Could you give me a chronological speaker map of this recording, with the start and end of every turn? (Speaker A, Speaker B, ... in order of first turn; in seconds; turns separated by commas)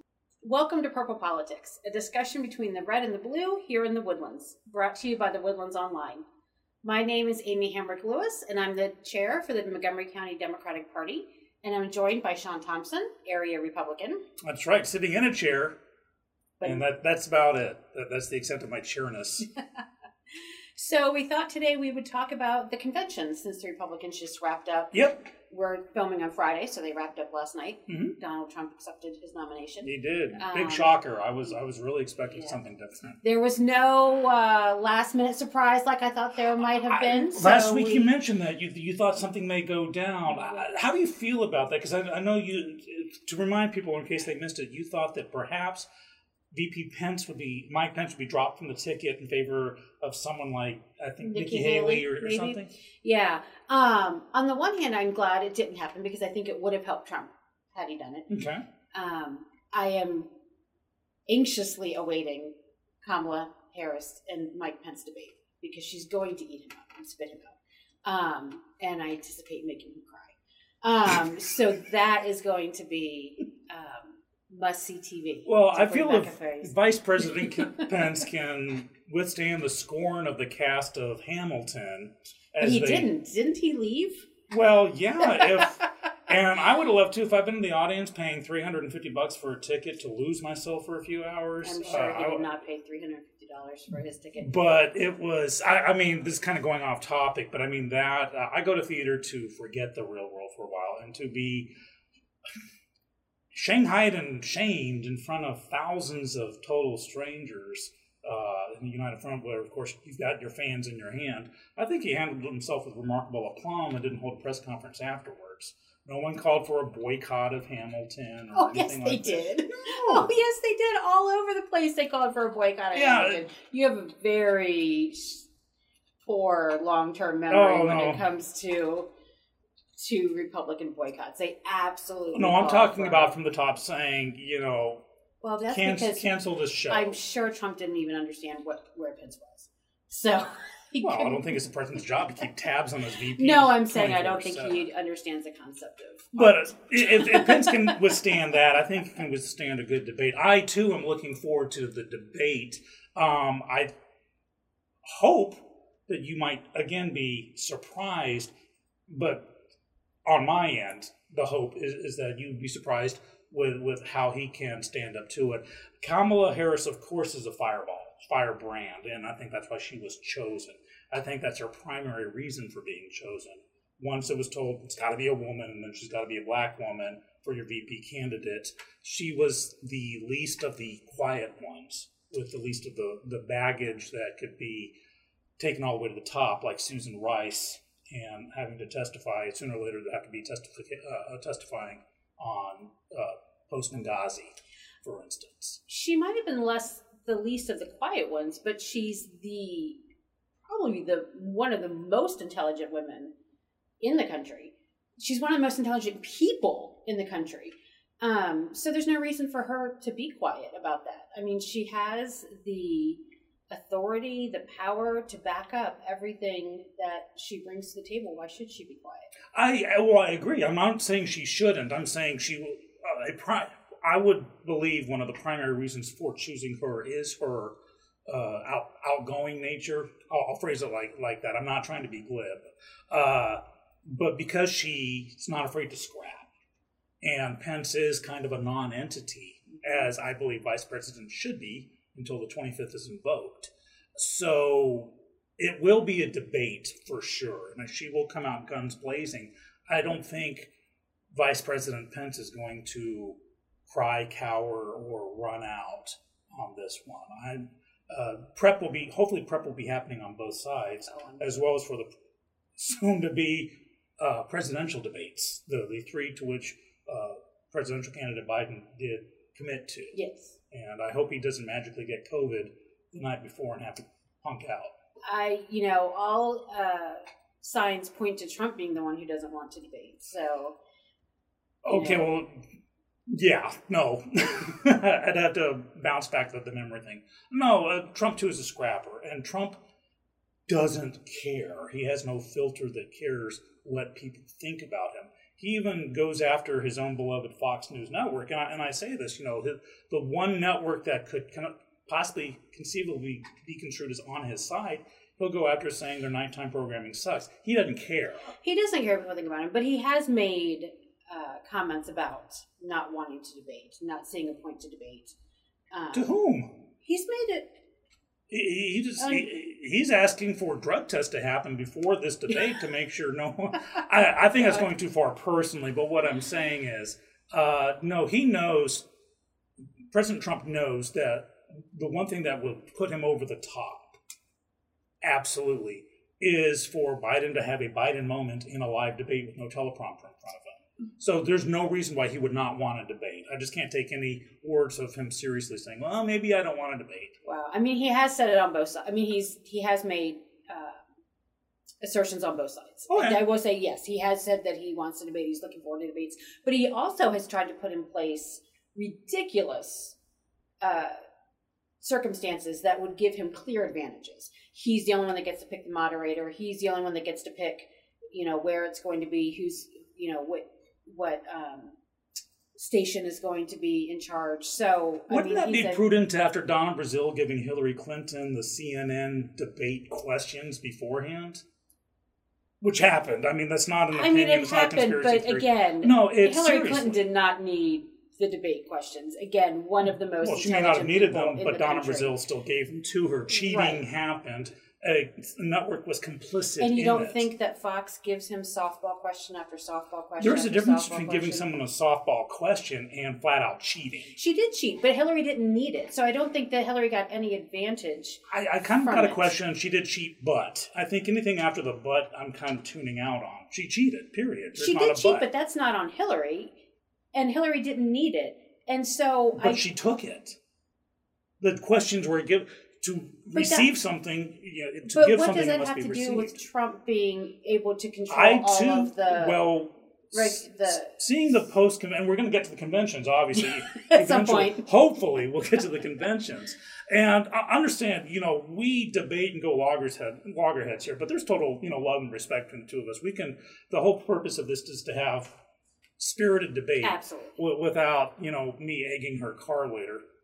Speaker A: 0.4-6.2, Speaker A: 6.8-14.2, Speaker B: 14.4-15.8, Speaker A: 16.6-16.9, Speaker B: 16.6-19.5, Speaker A: 20.8-30.9, Speaker B: 27.9-28.1, Speaker B: 29.8-33.2, Speaker A: 33.2-38.1, Speaker B: 36.9-45.9, Speaker B: 46.5-52.7, Speaker A: 51.2-58.3, Speaker B: 58.3-58.6, Speaker A: 58.9-60.3, Speaker A: 61.3-77.9, Speaker B: 75.5-83.1, Speaker A: 82.6-84.3, Speaker B: 84.5-92.5, Speaker A: 91.6-94.8, Speaker B: 94.4-101.7, Speaker B: 103.5-120.3, Speaker A: 118.5-125.5, Speaker B: 122.9-123.4, Speaker A: 126.2-129.1, Speaker B: 127.5-128.2, Speaker A: 130.0-133.3, Speaker B: 132.3-135.0, Speaker A: 135.4-136.2, Speaker B: 135.7-137.2, Speaker A: 136.9-141.6, Speaker B: 141.0-144.9, Speaker A: 143.3-148.0, Speaker B: 146.3-153.9, Speaker B: 155.1-158.5, Speaker B: 159.1-159.5, Speaker B: 160.2-184.9, Speaker B: 185.6-195.8, Speaker A: 195.9-200.0, Speaker A: 200.7-203.3, Speaker A: 204.0-219.3, Speaker B: 219.5-227.8, Speaker B: 228.3-236.5, Speaker B: 237.2-250.7, Speaker B: 251.3-253.4, Speaker B: 253.9-262.1, Speaker A: 261.1-261.6, Speaker B: 262.8-270.2, Speaker A: 270.1-270.6, Speaker B: 270.7-274.9, Speaker A: 275.2-280.8, Speaker B: 281.9-282.6, Speaker A: 281.9-282.3, Speaker B: 283.3-289.8, Speaker B: 290.7-308.5, Speaker A: 308.6-315.3, Speaker A: 315.9-316.3, Speaker B: 316.1-316.7, Speaker A: 317.0-317.7, Speaker B: 318.5-329.1, Speaker A: 319.2-319.5, Speaker B: 330.1-334.2, Speaker B: 335.2-347.4, Speaker A: 347.4-351.0, Speaker A: 352.0-360.1, Speaker B: 353.1-353.4, Speaker A: 360.8-361.1, Speaker A: 362.0-371.9, Speaker A: 372.8-376.0, Speaker B: 375.3-381.6, Speaker B: 382.8-387.2, Speaker A: 384.1-392.3, Speaker B: 390.4-397.5, Speaker A: 393.5-394.0, Speaker A: 396.8-401.7, Speaker B: 400.4-404.4, Speaker A: 404.4-408.4, Speaker B: 408.5-415.4, Speaker A: 409.0-409.5, Speaker A: 414.8-416.7, Speaker A: 417.4-419.8, Speaker B: 419.6-420.6, Speaker B: 421.6-426.6, Speaker A: 423.5-423.9, Speaker A: 425.1-429.6, Speaker B: 428.3-445.5, Speaker A: 430.3-431.1, Speaker A: 433.6-434.9, Speaker B: 446.2-450.2, Speaker A: 447.0-447.6